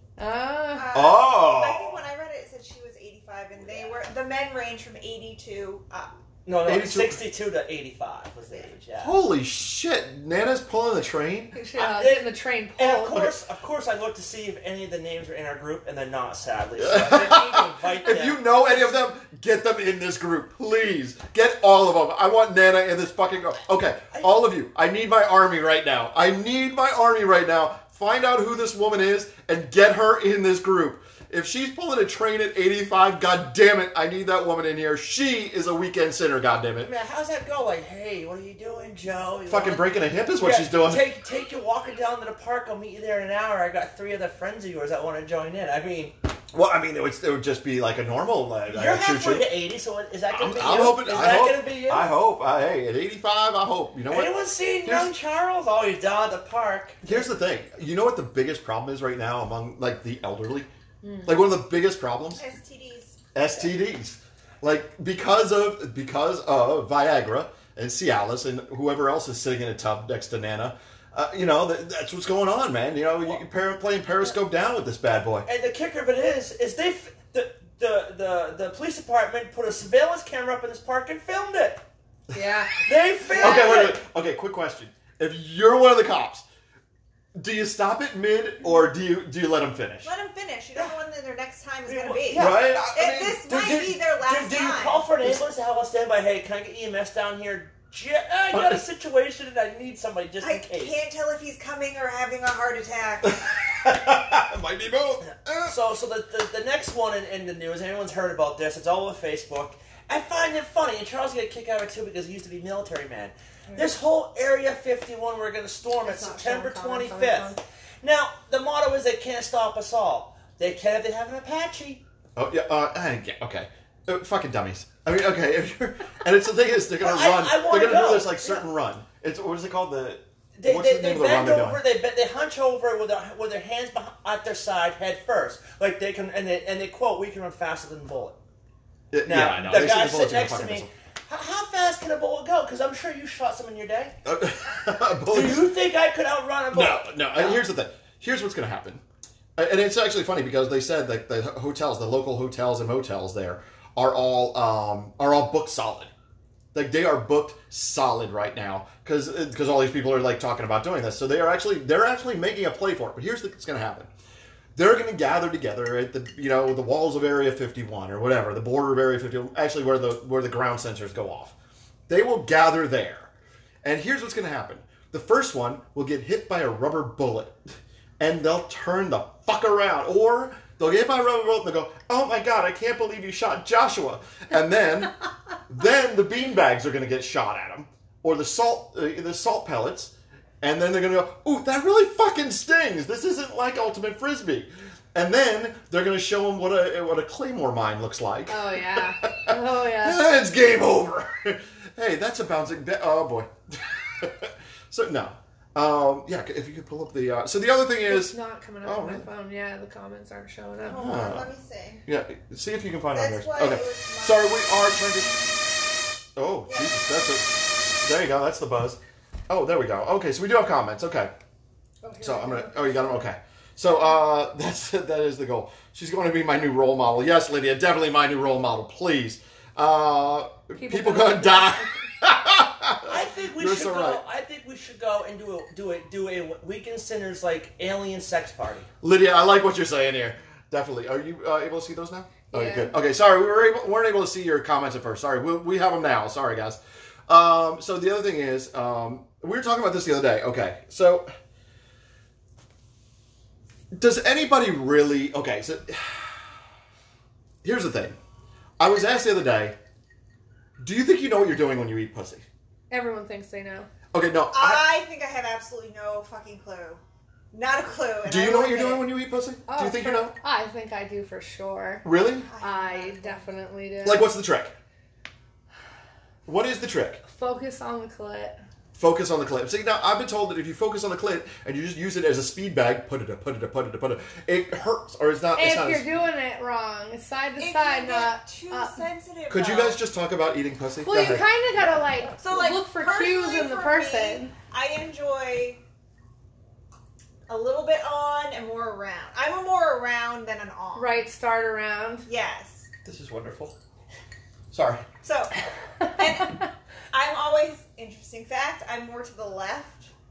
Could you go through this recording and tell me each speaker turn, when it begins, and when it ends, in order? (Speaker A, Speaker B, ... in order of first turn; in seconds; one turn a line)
Speaker A: 0.2-0.9
Speaker B: 0.7-6.1
Speaker C: 0.9-2.0
Speaker D: 6.5-9.2
Speaker C: 6.7-7.2
Speaker C: 9.0-11.5
Speaker A: 11.6-13.2
Speaker D: 11.8-18.7
Speaker C: 16.8-36.9
Speaker D: 36.8-46.2
Speaker C: 39.5-41.1
Speaker C: 46.5-49.5
Speaker D: 48.7-52.1
Speaker C: 50.3-54.3
Speaker D: 54.1-57.3
Speaker C: 54.9-55.1
Speaker C: 57.0-60.7
Speaker A: 61.0-61.4
Speaker C: 61.2-62.4
Speaker B: 62.4-63.2
Speaker C: 63.4-75.5
Speaker D: 75.5-81.8
Speaker A: 82.3-82.8
Speaker D: 82.8-84.0
Speaker B: 83.3-83.9
Speaker C: 83.4-86.5
Speaker C: 87.3-90.1
Speaker B: 90.0-95.1
Speaker D: 91.8-92.6
Speaker C: 92.3-94.0
Speaker D: 94.2-101.0
Speaker C: 98.5-98.8
Speaker B: 100.4-103.4
Speaker C: 103.2-105.8
Speaker D: 105.7-122.0
Speaker A: 116.0-117.6
Speaker C: 122.4-131.8
Speaker D: 127.0-128.7
Speaker D: 130.6-138.4
Speaker C: 139.1-140.9
Speaker D: 139.2-144.1
Speaker C: 144.2-145.7
Speaker D: 145.3-147.7
Speaker C: 146.7-149.0
Speaker C: 149.6-156.1
Speaker C: 156.7-164.1
Speaker C: 164.8-171.5
Speaker C: 172.1-173.3
Speaker C: 173.8-177.6
Speaker C: 178.2-185.1
Speaker C: 185.7-209.3
Speaker A: 198.5-200.2
Speaker A: 208.1-211.1
Speaker B: 210.9-212.0
Speaker C: 210.9-211.5
Speaker C: 212.1-215.6
Speaker B: 213.1-214.6
Speaker C: 216.3-221.3
Speaker A: 222.0-223.2
Speaker C: 222.2-234.2
Speaker A: 230.8-232.0
Speaker D: 233.1-238.9
Speaker C: 239.0-251.3
Speaker A: 242.5-242.9
Speaker C: 253.9-256.5
Speaker C: 257.6-258.2
Speaker C: 258.8-259.8
Speaker C: 260.8-262.4
Speaker A: 262.9-263.9
Speaker C: 264.1-264.9
Speaker B: 264.5-269.1
Speaker C: 268.2-270.4
Speaker A: 269.7-272.1
Speaker C: 272.0-272.5
Speaker B: 272.4-273.5
Speaker A: 272.6-274.3
Speaker C: 274.0-274.7
Speaker C: 276.5-277.2
Speaker A: 277.3-278.6
Speaker C: 278.9-286.1
Speaker A: 285.6-289.1
Speaker B: 287.6-290.0
Speaker C: 289.5-291.5
Speaker A: 291.0-294.5
Speaker B: 292.4-295.8
Speaker B: 297.5-301.2
Speaker A: 300.9-302.3
Speaker B: 302.3-302.9
Speaker C: 303.1-303.8
Speaker C: 304.7-305.1
Speaker B: 305.2-310.1